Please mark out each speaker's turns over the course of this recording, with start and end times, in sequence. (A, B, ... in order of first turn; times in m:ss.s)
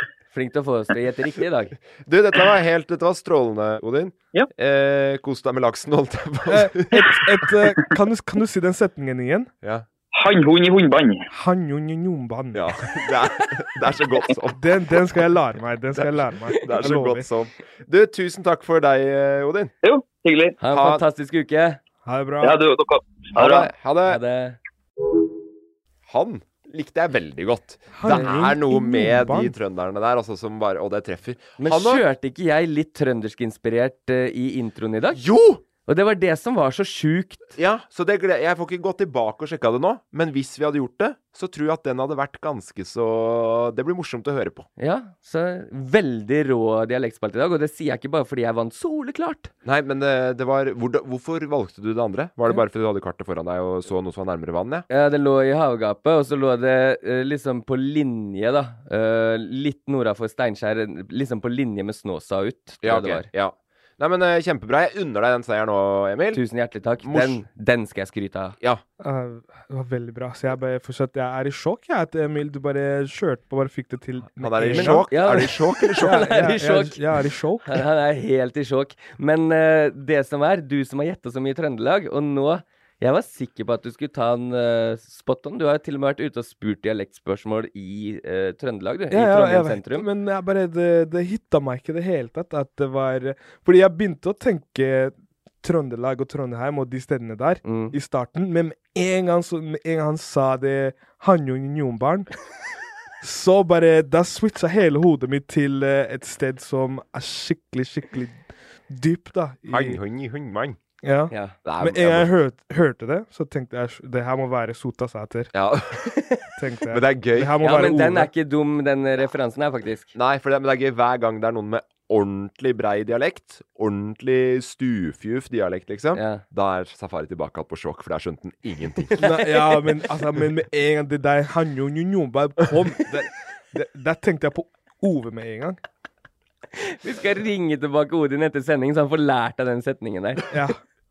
0:00.3-0:01.8 A
0:02.0-0:07.5 B
0:06.5-0:09.5 C
0:10.1-0:11.2 D
0:11.3-0:12.7 C
0:12.5-0:15.0 B
0:14.6-0:17.3 C
0:15.9-0:19.7 B
0:19.8-0:20.6 D
0:20.6-0:21.8 A
0:20.7-0:21.0 B
0:22.0-0:22.6 C
0:22.4-0:23.7 D
0:23.3-0:24.2 B
0:24.1-0:24.6 A
0:26.1-0:32.0 B
0:27.9-0:29.5 C
0:31.6-0:35.2 A
0:35.1-0:35.6 B
0:35.8-0:37.5 A
0:37.6-0:44.7 B
0:44.8-0:49.5 A
0:49.6-0:54.8 B
0:54.9-1:03.3 A
1:02.8-1:06.4 B
1:06.3-1:08.6 A
1:07.0-1:07.4 B
1:09.0-1:15.1 C
1:14.4-1:16.4 B
1:14.7-1:17.1 A
1:16.0-1:17.8 C
1:17.6-1:30.1 A
1:29.1-1:42.3 C
1:37.6-1:37.9 A
1:43.2-1:48.4 C
1:48.9-1:50.0 C
1:49.7-1:50.8 B
1:51.0-1:55.5 C
1:51.3-1:51.6 A
1:51.6-1:52.3 B
1:55.5-1:56.1 B
1:56.1-1:56.4 A
1:56.6-1:58.3 C
1:56.9-1:57.6 B
1:57.6-2:00.1 A
2:00.1-2:09.2 B
2:06.1-2:06.4 A
2:09.1-2:09.8 A
2:09.2-2:15.8 C
2:16.8-2:20.4 A
2:20.5-2:20.8 C